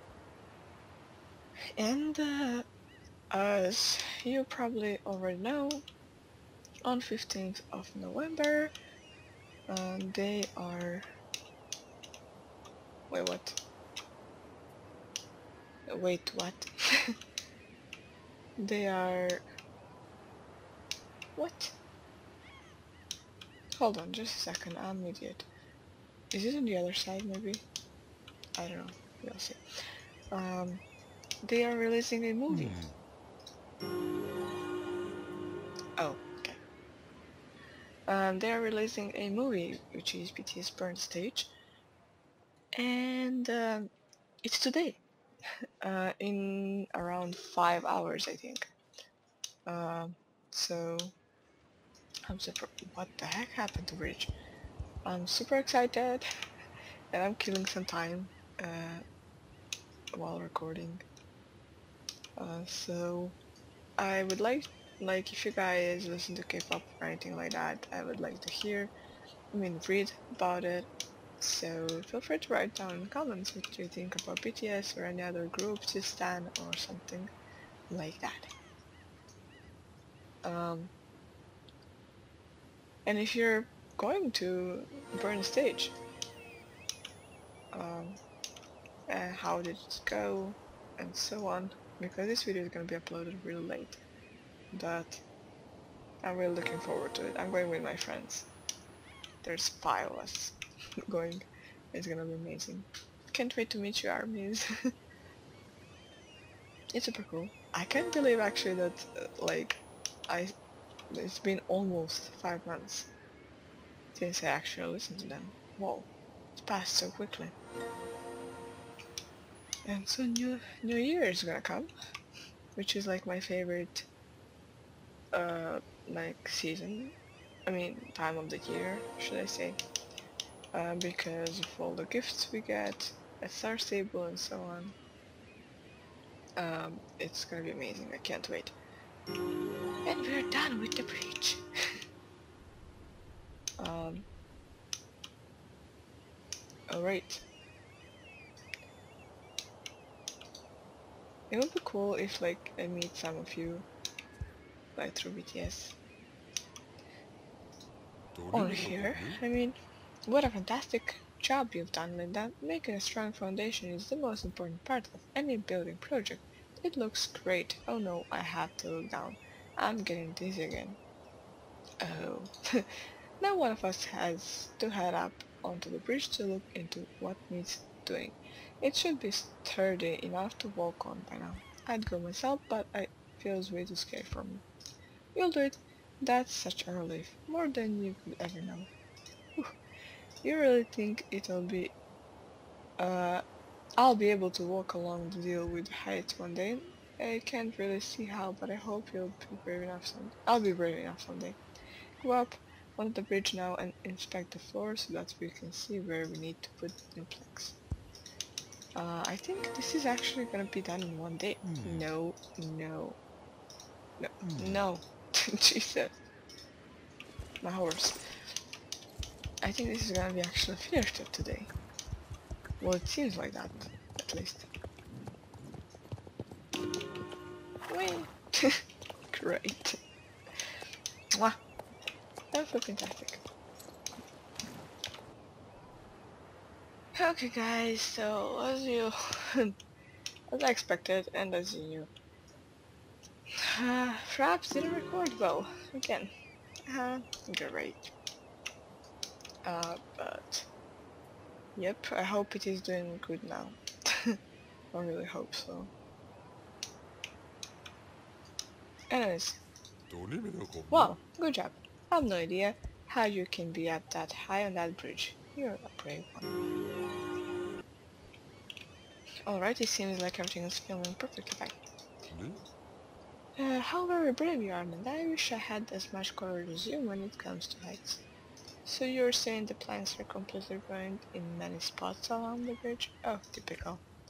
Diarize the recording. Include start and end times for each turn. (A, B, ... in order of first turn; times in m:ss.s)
0:01.8-0:02.7 A
0:03.3-0:05.8 A
0:06.8-0:08.7 A
0:09.7-0:11.0 A
0:13.1-0:13.6 A
0:15.9-0:17.1 A
0:18.6-0:19.4 A
0:21.4-0:21.7 A
0:23.8-0:25.5 A
0:26.3-0:27.6 A
0:28.6-0:29.6 A
0:30.3-0:30.8 A
0:31.4-0:32.8 A
0:32.5-0:33.0 B
0:36.0-0:36.6 A
0:38.1-0:41.5 A
0:42.8-0:43.9 A
0:44.4-0:45.0 A
0:45.8-0:48.7 A
0:49.6-0:51.1 A
0:52.3-0:54.3 A
0:55.0-0:56.2 A
0:57.1-0:59.0 A
1:00.1-1:01.0 A
1:02.4-1:03.4 A
1:04.0-1:08.9 A
1:09.5-1:17.3 A
1:17.9-1:18.5 A
1:20.4-1:20.9 A
1:23.0-1:25.9 A
1:27.7-1:28.2 A
1:29.1-1:34.0 A
1:34.7-1:35.2 A
1:36.2-1:38.5 A
1:39.4-1:40.6 A
1:41.1-1:44.6 A
1:46.9-1:50.5 A
1:51.1-1:53.1 A
1:54.1-1:57.5 A
1:59.8-2:01.9 A
2:02.8-2:04.1 A
2:05.3-2:07.1 A
2:07.6-2:09.8 A
2:10.7-2:14.9 A
2:16.6-2:18.8 A
2:20.0-2:21.6 A
2:23.8-2:24.2 A
2:26.9-2:27.4 A
2:31.5-2:33.9 A
2:35.0-2:36.0 A
2:38.3-2:39.4 B
2:38.5-2:51.0 A
2:52.0-2:52.9 A
2:53.4-3:04.6 A
3:05.3-3:08.9 A
3:10.4-3:11.9 A
3:13.0-3:13.4 A
3:14.0-3:21.6 A
3:22.2-3:27.8 A
3:29.0-3:33.2 A
3:31.6-3:32.1 B
3:34.2-3:36.1 A
3:34.4-3:34.8 B
3:37.6-3:38.2 A
3:39.6-3:41.7 A
3:42.8-3:44.7 A
3:47.9-3:48.8 A
3:49.3-3:50.0 A
3:52.5-3:53.4 A
3:57.2-3:59.7 A
4:00.5-4:02.1 A
4:03.6-4:06.3 A
4:06.9-4:08.1 A
4:09.6-4:10.7 A
4:11.8-4:14.4 A
4:14.9-4:15.9 A
4:19.1-4:19.6 A
4:20.1-4:21.2 B
4:20.9-4:26.5 A
4:29.4-4:31.8 A
4:32.3-4:32.6 B
4:33.6-4:38.2 A
4:38.8-4:44.0 A